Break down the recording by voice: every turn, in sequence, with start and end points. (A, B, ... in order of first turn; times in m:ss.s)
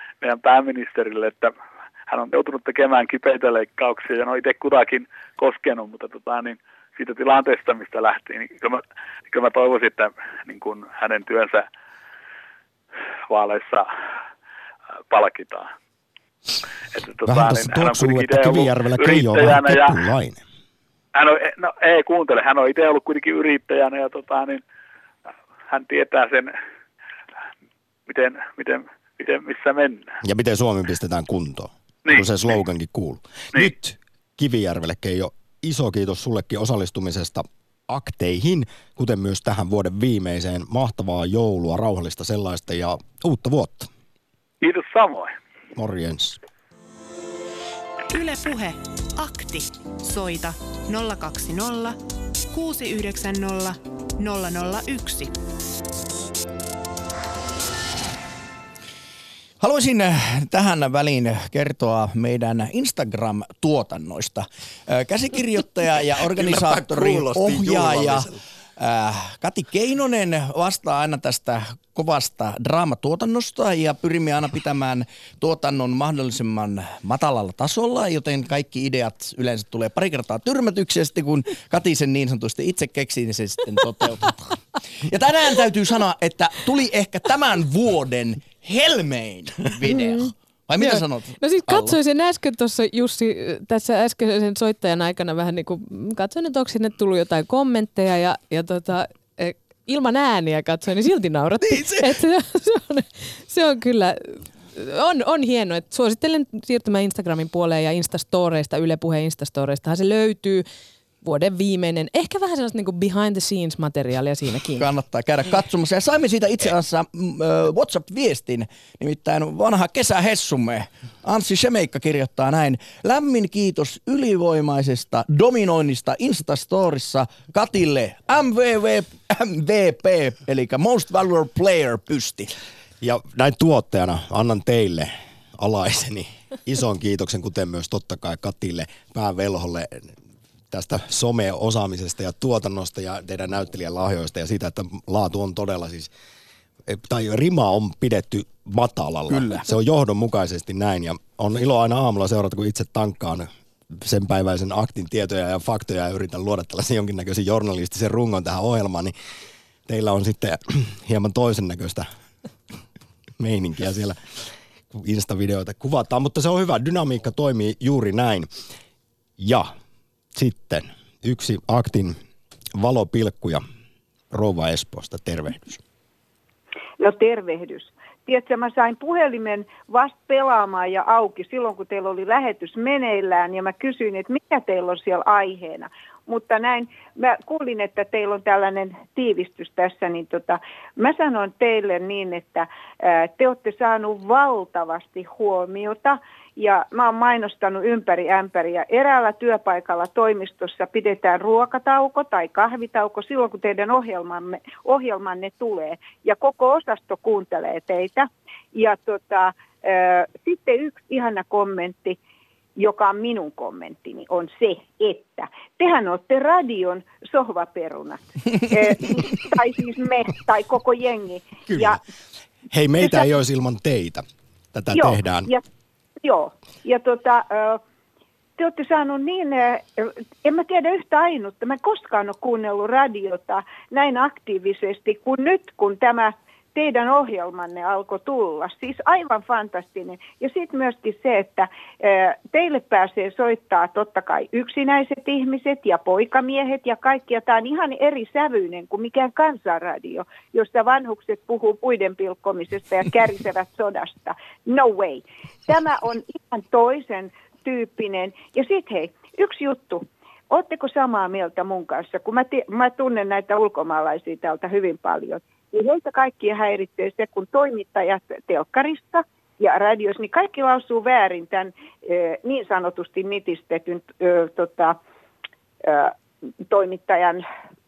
0:00.2-0:01.5 A
0:02.1-0:11.6 A
0:13.3-0:13.9 A
0:15.1-0:15.7 A
0:16.9-0:19.9 A
0:17.2-0:20.4 B
0:21.1-0:24.6 A
0:25.7-0:26.5 A
0:28.1-0:30.1 A
0:30.2-0:43.9 B
0:44.6-0:45.3 A
0:45.7-0:46.4 B
0:48.1-0:52.0 C
0:52.5-0:55.3 C
0:59.6-1:24.4 D
1:06.3-1:08.4 B
1:25.0-1:32.0 D
1:29.9-1:50.6 E
1:41.6-1:42.1 D
1:51.2-1:54.9 E
1:54.8-2:12.5 D
2:13.0-2:20.1 B
2:20.7-2:26.1 B
2:26.9-2:39.1 B
2:29.3-2:29.7 D
2:39.9-2:42.0 B
2:43.4-2:44.2 B
2:44.9-2:48.5 B
2:49.4-2:49.7 B
2:50.3-2:52.2 B
2:52.7-2:53.6 B
2:54.3-2:55.8 B
2:57.0-3:32.2 F
3:32.8-3:42.0 F
3:41.7-3:42.0 B
3:42.7-3:45.5 B
3:43.0-3:43.3 F
3:44.9-3:45.6 F
3:46.2-3:47.8 F
3:48.6-4:35.0 F
4:35.8-4:36.1 F
4:36.7-4:37.4 F